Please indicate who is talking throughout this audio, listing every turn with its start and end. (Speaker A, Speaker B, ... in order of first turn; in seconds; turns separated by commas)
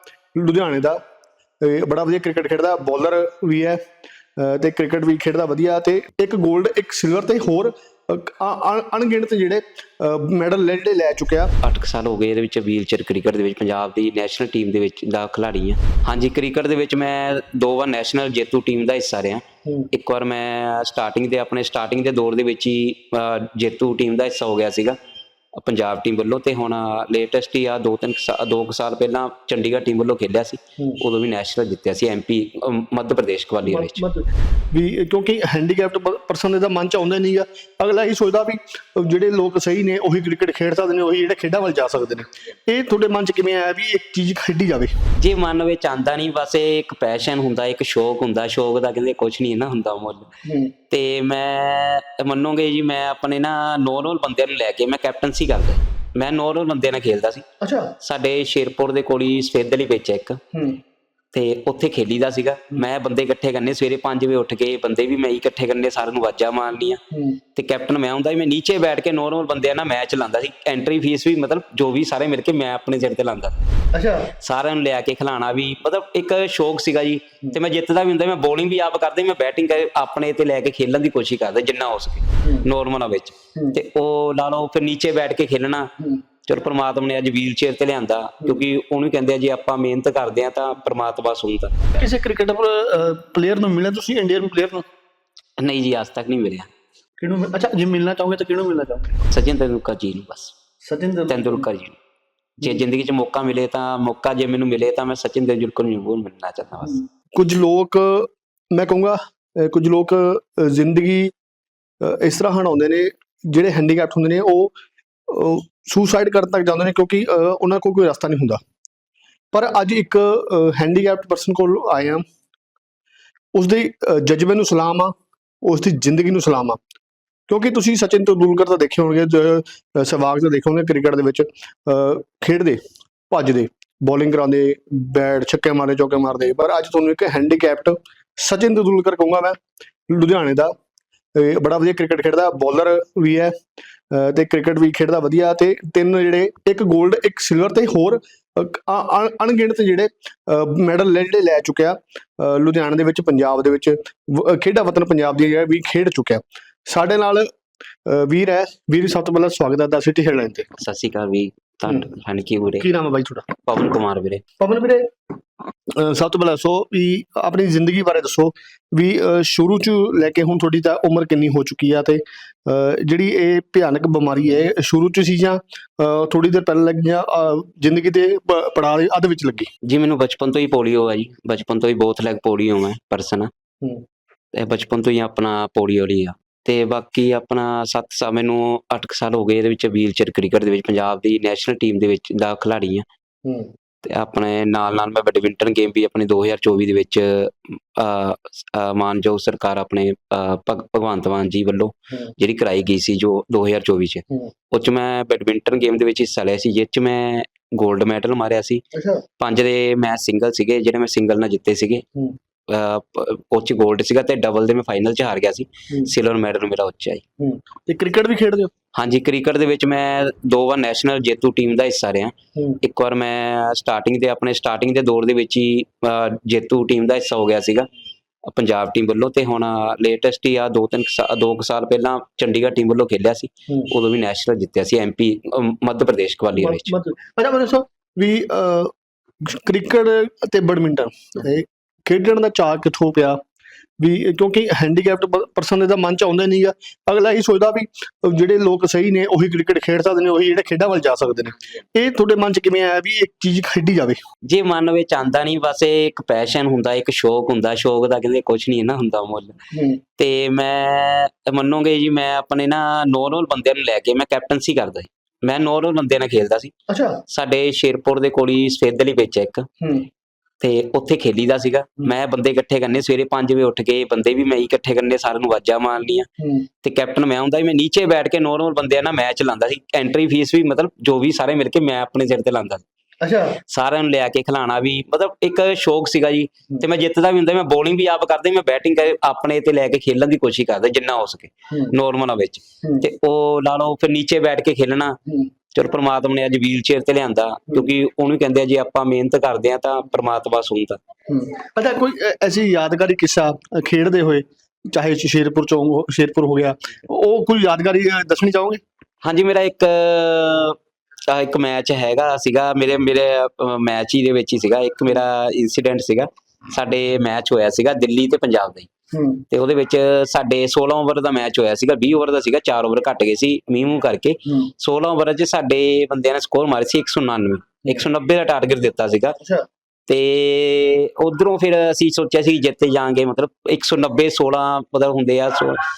Speaker A: 0.3-1.0, Speaker A: 1.6-3.8, Speaker A: 4.4-11.5, Speaker B: 11.6-24.9, Speaker B: 25.5-34.0, Speaker A: 33.6-44.9, Speaker B: 45.2-50.3, Speaker A: 50.4-50.7, Speaker B: 50.9-57.4, Speaker A: 57.6-57.9, Speaker B: 58.0-60.4, Speaker A: 60.5-60.8, Speaker B: 61.3-67.0, Speaker A: 67.1-67.4, Speaker B: 67.5-73.6, Speaker A: 73.9-74.3, Speaker B: 74.4-85.9, Speaker B: 86.4-91.7, Speaker A: 91.9-94.8, Speaker B: 95.6-96.7, Speaker A: 97.2-99.1, Speaker B: 99.3-100.5, Speaker A: 100.8-101.7, Speaker B: 101.3-102.0, Speaker B: 102.6-107.0, Speaker A: 106.8-111.3, Speaker A: 112.0-114.7, Speaker A: 115.3-118.6, Speaker A: 119.5-122.2, Speaker A: 123.5-126.8, Speaker A: 127.5-139.6, Speaker A: 140.1-140.7, Speaker A: 141.3-143.5, Speaker A: 144.1-157.5, Speaker A: 158.1-160.7, Speaker B: 160.8-162.9, Speaker A: 162.8-163.5, Speaker B: 163.6-164.4, Speaker A: 164.6-165.1, Speaker A: 165.9-179.7, Speaker B: 179.8-183.5, Speaker B: 184.5-193.0, Speaker A: 193.4-193.7, Speaker B: 194.0-208.8, Speaker A: 208.9-209.2, Speaker B: 209.4-212.0, Speaker B: 212.7-217.2, Speaker A: 217.4-218.7, Speaker B: 218.9-227.9, Speaker B: 228.4-236.9, Speaker A: 236.5-238.9, Speaker A: 239.4-243.4, Speaker A: 244.0-254.2, Speaker B: 254.4-259.6, Speaker A: 259.7-260.0, Speaker B: 260.2-266.7, Speaker A: 266.9-267.2, Speaker B: 267.3-269.7, Speaker A: 269.8-270.1, Speaker B: 270.6-276.3, Speaker A: 276.4-276.6, Speaker B: 276.8-282.8, Speaker A: 283.2-283.6, Speaker B: 283.7-295.2, Speaker B: 295.7-301.0, Speaker A: 301.3-308.8, Speaker B: 309.2-310.8, Speaker B: 311.3-318.9, Speaker A: 319.1-319.4, Speaker B: 319.5-329.4, Speaker A: 324.4-324.7, Speaker A: 329.4-329.6, Speaker B: 330.1-335.8